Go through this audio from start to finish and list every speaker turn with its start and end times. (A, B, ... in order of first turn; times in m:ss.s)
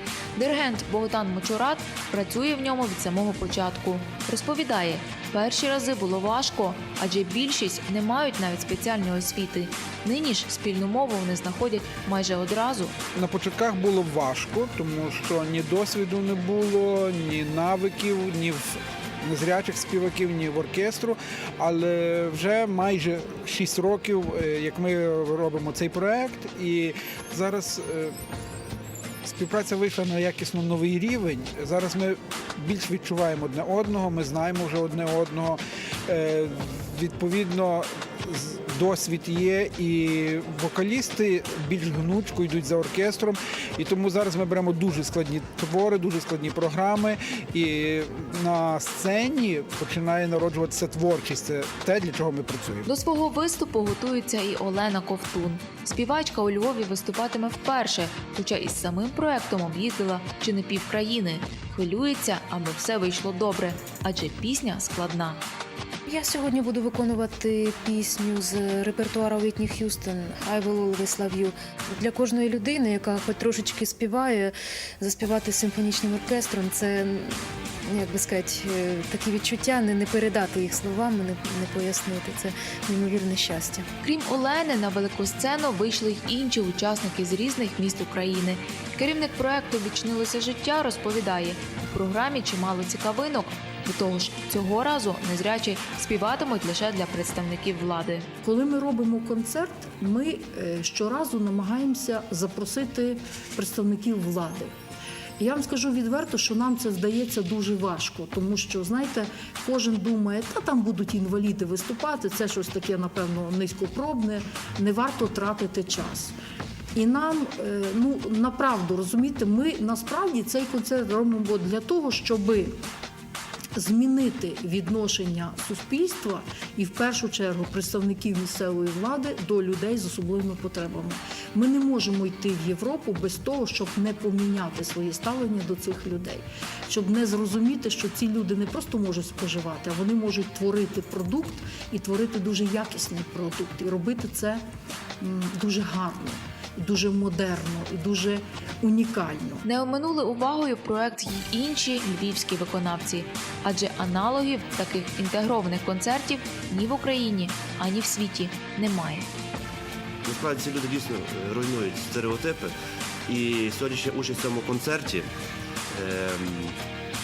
0:00.4-0:12.9 A
0:13.1-0:28.1 B
0:29.2-0:52.9 B
0:52.9-1:05.4 A
1:06.0-1:23.9 C
1:24.0-1:38.3 A
1:38.4-1:44.7 D
1:45.4-1:56.3 D
1:56.9-2:02.8 D
2:03.7-2:24.6 D
2:25.2-2:29.6 D
2:29.6-2:39.3 A
2:40.2-2:42.7 E
2:43.3-2:45.3 E
2:45.9-2:46.8 E